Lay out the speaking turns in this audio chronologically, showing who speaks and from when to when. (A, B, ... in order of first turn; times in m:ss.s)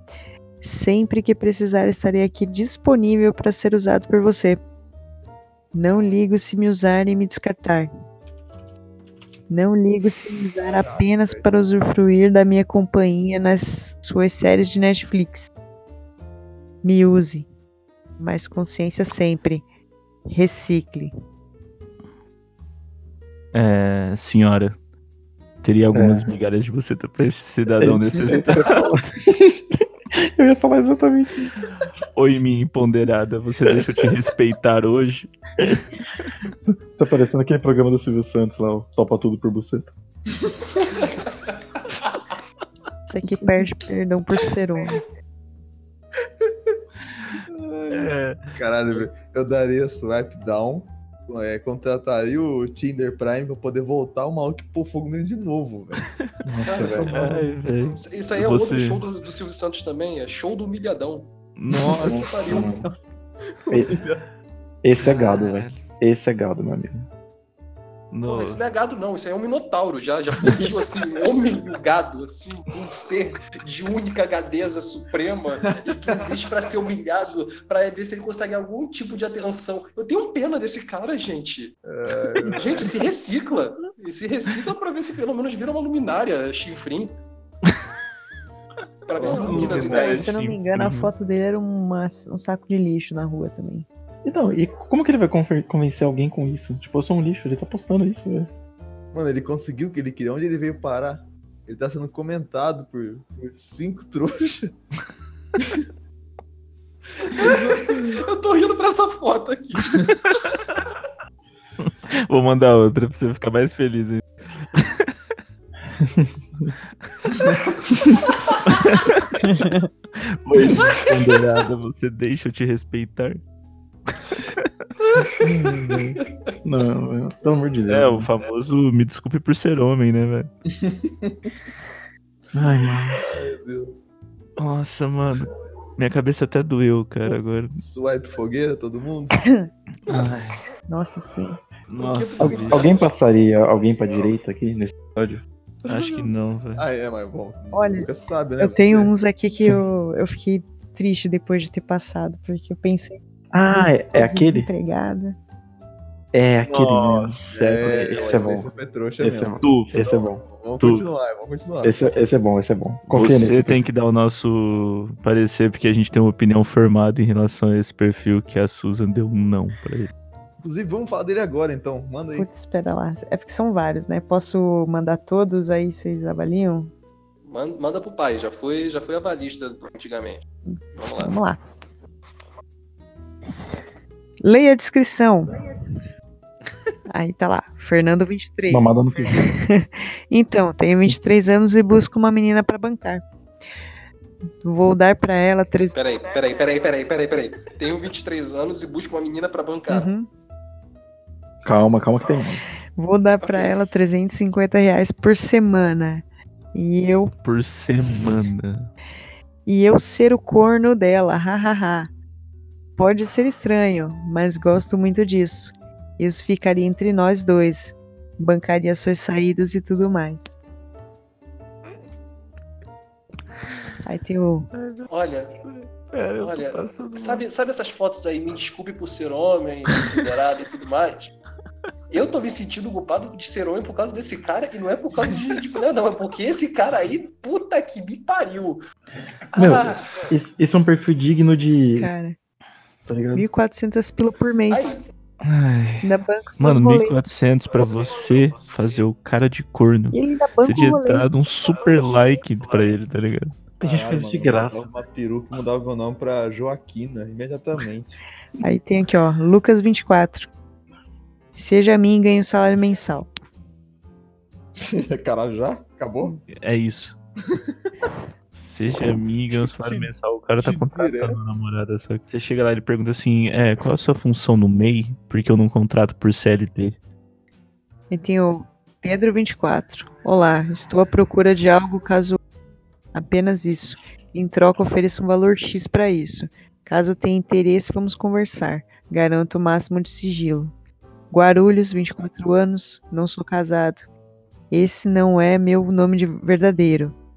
0:00.6-0:04.6 A
0:05.7-0:07.9 A
0:09.5-0:15.5 A
0:10.6-0:11.5 B
0:16.8-0:17.5 A
0:18.2-0:19.6 A
0:20.3-0:21.1 A
0:23.5-0:24.8 C
0:25.6-0:29.1 C
0:25.9-0:26.3 D
0:27.8-0:31.7 D
0:32.1-0:35.3 C
0:37.0-0:39.9 D
0:40.8-0:41.6 E
0:43.1-0:45.0 A
0:46.4-0:46.8 B
0:47.4-0:56.1 B
0:47.9-0:48.6 C
0:56.1-0:56.3 C
0:56.5-0:57.4 D
0:56.6-0:57.1 E
0:57.0-0:59.2 C
0:58.0-1:01.3 E
1:01.6-1:02.7 C
1:01.8-1:02.9 E
1:02.0-1:02.8 D
1:02.8-1:03.1 A
1:03.6-1:04.3 B
1:03.7-1:04.0 D
1:04.8-1:07.1 D
1:05.0-1:05.8 C
1:08.1-1:08.6 C
1:08.3-1:21.7 E
1:21.8-1:23.0 B
1:22.5-1:27.1 E
1:29.1-1:30.3 E
1:29.2-1:30.0 B
1:29.2-1:31.1 C
1:29.6-1:33.9 A
1:34.2-1:38.5 D
1:39.1-1:44.8 B
1:45.6-1:45.8 B
1:47.2-1:48.3 B
1:47.4-1:50.4 E
1:50.3-1:50.9 C
1:51.8-1:55.2 C
1:55.9-1:56.8 D
1:57.0-1:57.3 C
1:58.6-1:59.5 C
1:59.5-1:59.8 A
2:00.1-2:03.4 C
2:04.1-2:04.9 C
2:05.0-2:06.6 E
2:05.4-2:08.3 D
2:07.9-2:10.5 C
2:10.7-2:11.5 B
2:12.5-2:13.2 D
2:13.1-2:14.0 B
2:14.6-2:17.8 C
2:17.8-2:19.4 B
2:19.4-2:19.7 A
2:20.0-2:20.7 C
2:20.1-2:20.6 E
2:20.9-2:21.6 A
2:21.9-2:23.0 C
2:22.0-2:23.1 E
2:22.4-2:25.4 D
2:25.9-2:26.9 C
2:25.9-2:29.1 B
2:27.7-2:28.1 A
2:28.6-2:33.2 A
2:33.5-2:34.7 D
2:33.7-2:35.4 A
2:36.3-2:38.7 D
2:36.7-2:38.4 C
2:37.5-2:42.0 B
2:39.2-2:40.4 D
2:39.6-2:40.1 C
2:40.8-2:41.1 C
2:41.8-2:43.8 D
2:43.1-2:50.1 C
2:50.6-2:52.5 B
2:52.4-2:56.9 A
2:57.4-3:00.4 E
3:00.7-3:01.6 A
3:01.0-3:01.4 E
3:04.4-3:05.7 A
3:07.1-3:13.2 A
3:08.7-3:09.5 D
3:14.6-3:16.0 A
3:15.9-3:20.1 E
3:19.9-3:20.3 A
3:21.6-3:22.6 D
3:23.0-3:27.3 A
3:23.4-3:23.8 E
3:27.4-3:28.9 C
3:29.7-3:32.1 A
3:33.0-3:40.6 A
3:44.0-3:44.7 A
3:44.7-3:45.1 C
3:45.1-3:45.6 E
3:45.6-3:47.4 C
3:46.4-3:51.3 E
3:52.1-3:58.8 E
3:59.5-4:00.2 E
3:59.6-4:02.1 D
4:02.0-4:02.4 A
4:03.1-4:03.5 D
4:03.3-4:05.0 A
4:04.7-4:05.1 E
4:05.4-4:13.6 C
4:06.0-4:07.2 A
4:10.1-4:11.3 A
4:13.8-4:14.9 D
4:13.8-4:18.2 B
4:18.6-4:20.5 A
4:21.6-4:23.3 A
4:24.8-4:26.4 B
4:26.5-4:27.2 C
4:27.5-4:27.9 B
4:28.5-4:37.0 C
4:29.5-4:31.4 B
4:38.1-4:42.4 A
4:43.1-4:50.7 A
4:51.3-4:54.1 A
4:54.7-4:57.2 A